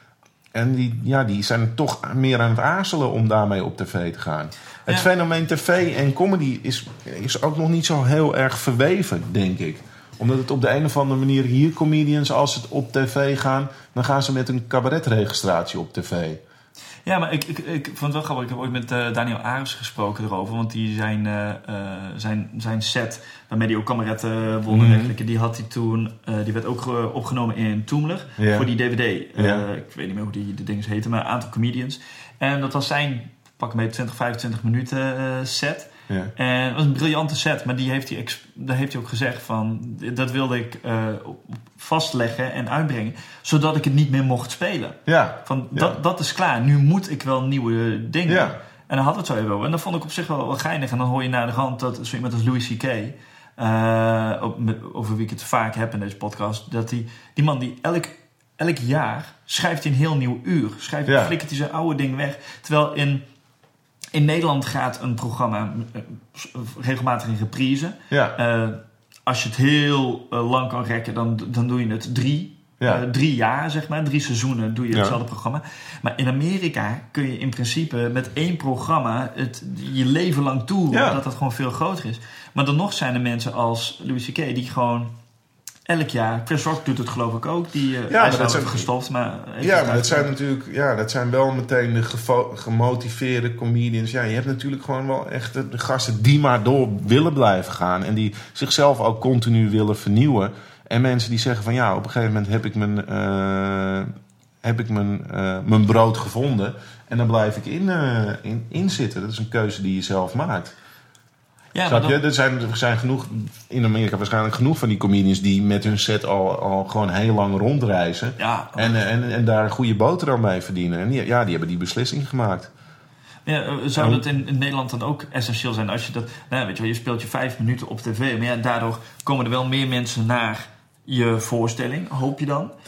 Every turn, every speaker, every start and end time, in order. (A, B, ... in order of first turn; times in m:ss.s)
0:00.5-0:16.4 A
0:17.0-1:03.3 B
0:24.7-0:25.1 A
0:28.4-0:28.7 A
0:29.4-0:29.6 A
0:45.1-0:46.0 A
0:48.3-0:48.6 A
1:01.1-1:01.3 A
1:04.1-1:25.1 B
1:08.1-1:08.4 A
1:14.9-1:15.2 A
1:20.9-1:21.2 A
1:25.9-1:30.3 B
1:28.1-1:28.9 A
1:29.6-1:50.7 A
1:51.7-1:52.2 B
1:51.9-2:02.7 A
1:58.4-1:59.0 B
2:03.4-2:12.7 B
2:04.0-2:04.2 A